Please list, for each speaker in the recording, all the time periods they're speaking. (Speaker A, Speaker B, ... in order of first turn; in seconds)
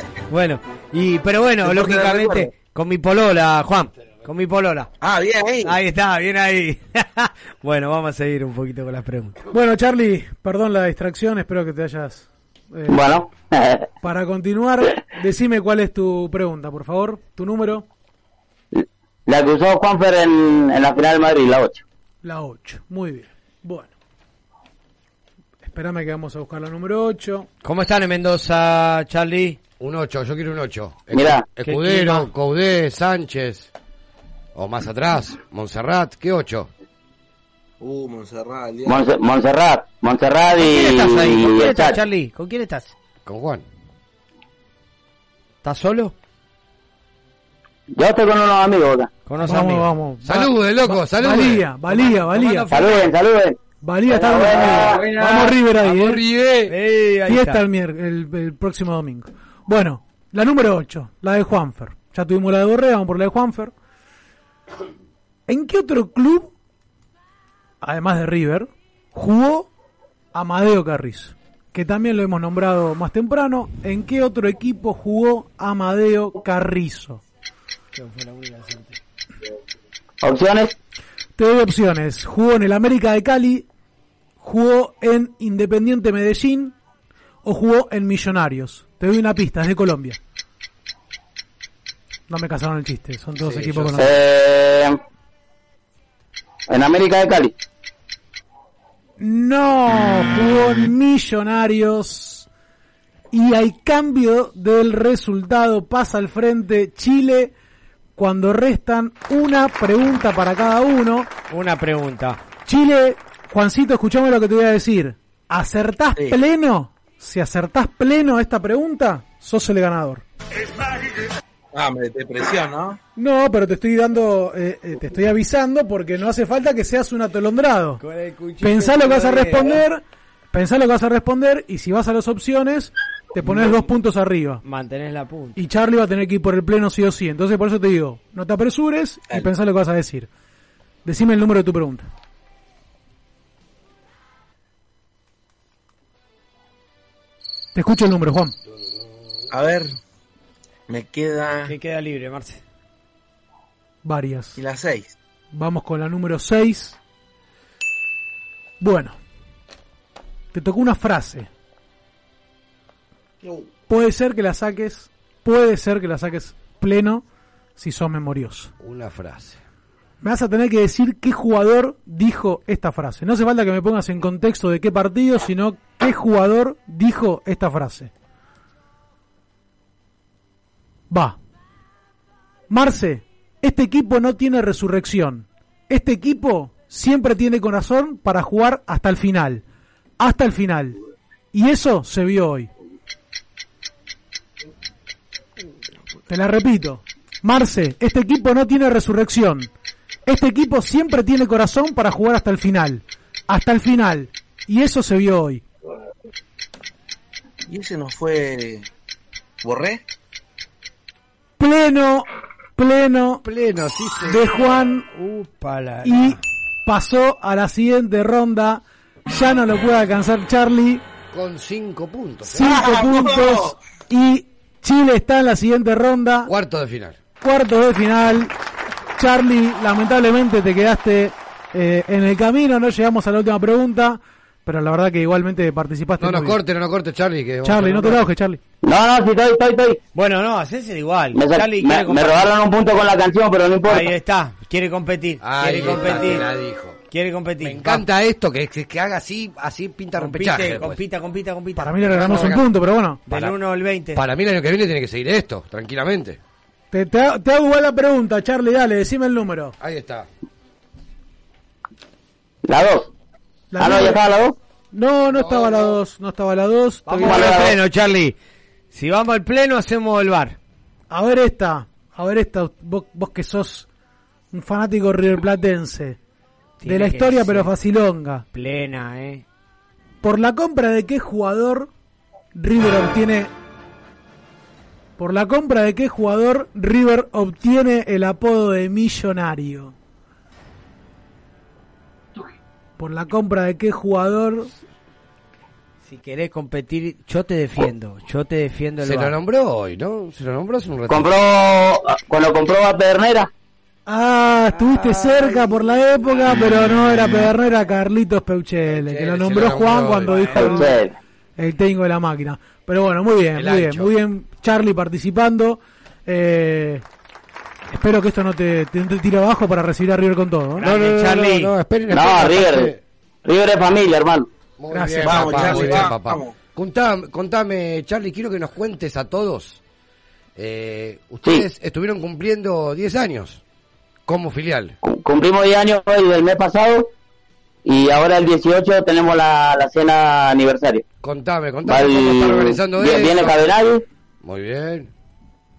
Speaker A: 0.3-4.9, 5.6-9.5, 27.6-29.6, 31.6-32.3, 40.6-42.9, 45.6-46.1, 49.3-49.9, 51.9-53.0, 56.7-57.6, 78.0-79.0, 111.5-112.4, 128.0-129.8, 133.4-133.9, 134.6-135.6, 151.7-152.6, 215.0-216.4, 240.2-242.5, 243.9-246.5, 247.1-248.1, 250.2-252.6, 253.3-254.2, 267.1-268.4, 268.9-270.6, 276.8-277.7, 278.5-279.4, 296.1-299.4, 310.3-310.6, 320.8-321.7
Speaker B: 1.6-2.5, 5.0-5.7, 37.8-39.0, 121.7-123.0, 149.5-150.0, 150.9-151.7, 154.6-155.1, 207.7-208.9, 209.6-210.0, 222.7-223.8, 325.2-326.6
Speaker C: 9.5-13.2, 14.0-17.9, 22.2-23.9, 25.6-27.5, 49.4-52.7, 53.8-56.2, 57.3-63.7, 65.5-66.5, 67.8-69.7, 70.3-77.2, 81.4-83.7, 84.4-86.7, 87.4-90.2, 92.3-94.1, 99.2-102.5, 103.3-107.5, 108.2-111.3, 112.7-120.2, 123.2-128.0, 128.6-130.0, 130.5-134.6, 135.6-140.3, 141.1-142.1, 147.8-148.6, 154.0-154.6, 155.5-157.0, 158.8-159.2, 160.5-161.5, 163.9-167.2, 167.8-168.7, 170.2-178.1, 181.1-181.4, 182.7-189.6, 190.2-191.0, 191.5-192.7, 196.3-199.7, 200.3-205.6, 211.6-212.3, 212.8-213.4, 214.2-215.1, 216.0-221.0, 222.4-226.5, 227.4-228.5, 229.2-236.6, 237.6-238.6, 251.8-253.2, 256.9-259.8, 263.7-264.3, 264.9-267.6, 271.1-273.9, 274.5-276.2, 276.9-278.4, 280.2-281.9, 282.6-283.5, 285.2-289.9, 293.0-294.7, 304.1-310.9, 311.6-317.0, 317.9-320.9, 324.9-326.1
Speaker D: 12.9-13.9, 18.7-21.8, 31.1-31.4, 38.9-42.0, 48.0-49.1, 52.7-53.6, 54.1-55.5, 80.2-80.7, 94.0-95.0, 96.7-97.5, 238.8-240.0, 241.3-244.1, 262.7-263.1, 263.8-264.6, 267.3-267.8, 301.1-303.5, 310.5-311.1, 322.1-322.9, 323.5-324.5, 335.0-337.1, 337.9-341.0, 341.9-344.0
Speaker E: 29.8-33.7, 34.5-36.7, 43.2-43.6, 50.2-51.7, 55.7-56.7, 93.4-94.0, 148.7-149.5, 168.8-169.6, 213.4-214.7, 221.3-222.8, 226.5-227.2, 236.2-238.3, 245.4-247.0, 247.6-251.0, 252.1-252.7, 253.3-253.6, 254.1-256.4, 259.8-260.3, 265.3-266.0, 299.0-301.3, 304.7-305.8, 308.9-310.8, 313.6-314.1, 320.8-323.0, 324.8-329.8, 330.6-333.6, 334.3-335.0, 341.2-343.7, 344.4-345.1